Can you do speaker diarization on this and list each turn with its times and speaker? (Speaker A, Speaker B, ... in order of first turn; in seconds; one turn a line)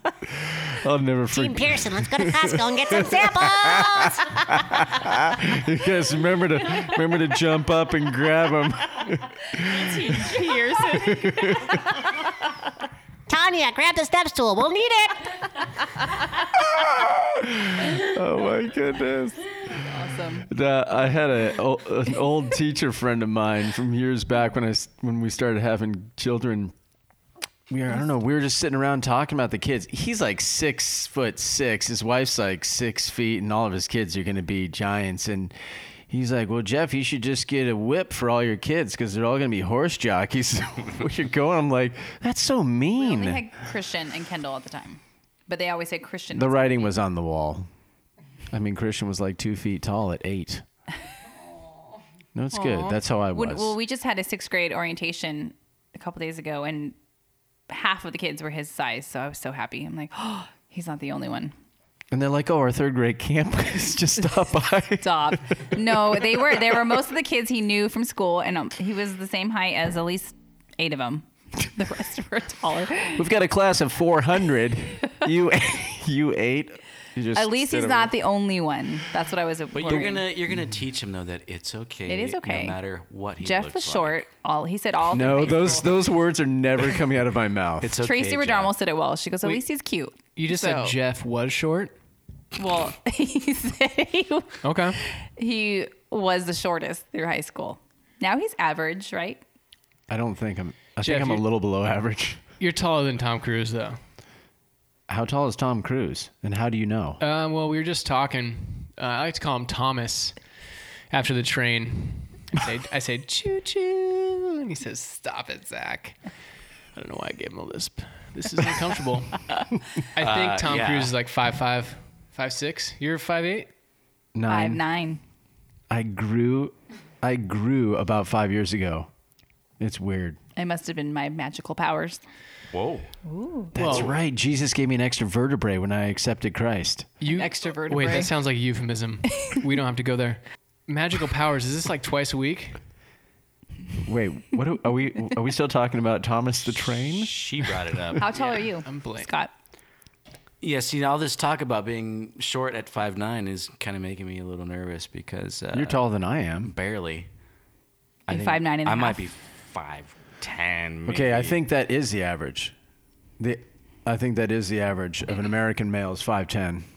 Speaker A: 0.4-11.8
Speaker B: 1.3-4.8
Speaker C: 9.7-11.9
Speaker B: 13.3-15.4
Speaker A: 16.7-19.8
Speaker C: 19.8-20.5
Speaker A: 20.4-26.7
Speaker A: 27.7-35.5
Speaker A: 36.1-43.5
Speaker C: 43.0-46.9
Speaker A: 46.3-47.7
Speaker A: 48.5-50.6
Speaker A: 52.4-53.8
Speaker C: 52.5-57.0
Speaker C: 57.7-61.5
Speaker A: 62.1-66.7
Speaker C: 65.0-73.2
Speaker A: 73.2-78.1
Speaker C: 77.3-80.3
Speaker D: 79.7-84.2
Speaker C: 82.1-82.8
Speaker C: 83.4-86.0
Speaker A: 85.1-88.0
Speaker D: 87.8-88.7
Speaker C: 88.0-91.0
Speaker E: 90.3-92.0
Speaker C: 92.5-99.4
Speaker E: 94.6-95.0
Speaker A: 100.1-102.4
Speaker E: 101.0-101.4
Speaker E: 102.6-104.0
Speaker A: 105.1-107.2
Speaker E: 107.2-110.4
Speaker E: 111.1-116.2
Speaker E: 116.9-119.6
Speaker E: 120.1-123.7
Speaker D: 120.2-121.2
Speaker A: 124.3-124.8
Speaker C: 124.5-125.2
Speaker A: 125.9-129.1
Speaker A: 129.8-130.4
Speaker C: 130.6-132.2
Speaker D: 132.7-133.1
Speaker C: 133.2-133.8
Speaker A: 133.7-137.1
Speaker E: 133.8-134.1
Speaker E: 137.2-142.8
Speaker C: 137.3-138.3
Speaker A: 144.0-147.3
Speaker D: 147.0-148.2
Speaker C: 148.2-149.5
Speaker E: 148.2-149.3
Speaker D: 150.6-156.0
Speaker A: 155.7-156.7
Speaker D: 156.6-157.3
Speaker C: 158.3-159.3
Speaker D: 158.3-161.6
Speaker A: 161.1-162.7
Speaker A: 163.4-166.9